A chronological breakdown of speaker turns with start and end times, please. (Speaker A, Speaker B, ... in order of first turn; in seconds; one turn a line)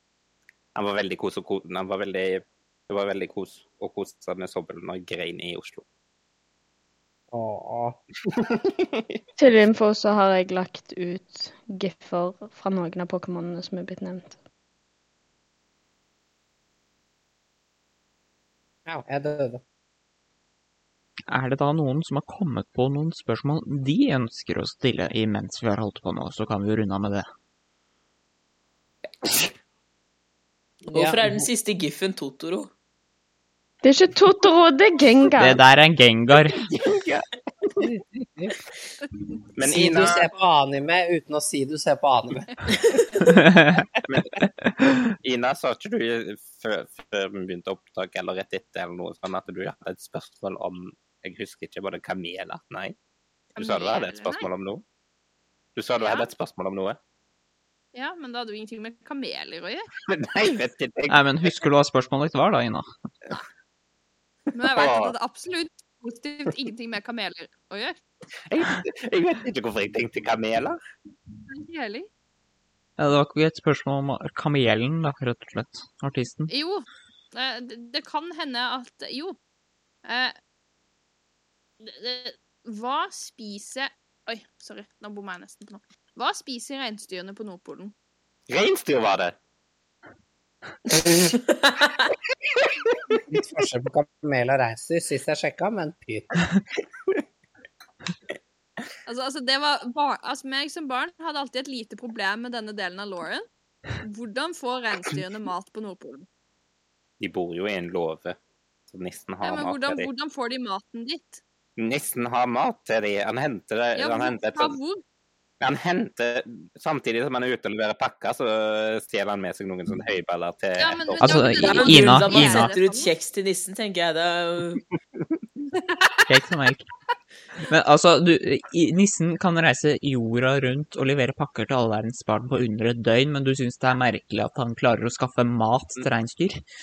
Speaker A: 0.8-5.8
Speaker B: 7.3-8.0
Speaker A: 8.6-9.2
Speaker C: 9.4-14.4
Speaker B: 18.9-19.6
Speaker D: 21.3-27.3
Speaker B: 30.9-31.5
Speaker E: 30.9-32.7
Speaker C: 33.8-35.6
Speaker D: 35.4-36.6
Speaker A: 36.5-37.3
Speaker B: 37.8-38.5
Speaker A: 39.5-40.2
Speaker B: 39.6-42.5
Speaker D: 43.2-43.9
Speaker A: 44.1-44.5
Speaker A: 45.2-53.0
Speaker F: 53.6-54.5
Speaker A: 53.6-54.8
Speaker A: 55.8-57.0
Speaker F: 56.0-56.3
Speaker F: 57.9-59.9
Speaker A: 60.1-61.6
Speaker D: 61.1-62.9
Speaker F: 64.5-68.0
Speaker A: 64.7-65.1
Speaker A: 68.5-70.8
Speaker F: 71.5-72.1
Speaker D: 73.0-76.5
Speaker F: 76.5-79.4
Speaker F: 80.0-80.3
Speaker F: 81.8-87.9
Speaker A: 88.5-89.3
Speaker B: 93.3-96.3
Speaker F: 99.1-103.5
Speaker F: 104.0-106.3
Speaker A: 107.2-108.4
Speaker A: 108.9-110.1
Speaker F: 109.4-111.4
Speaker A: 111.8-114.8
Speaker F: 114.0-115.0
Speaker A: 115.6-121.6
Speaker F: 120.8-123.1
Speaker D: 121.2-122.7
Speaker E: 121.6-124.8
Speaker D: 126.3-126.9
Speaker D: 127.7-136.6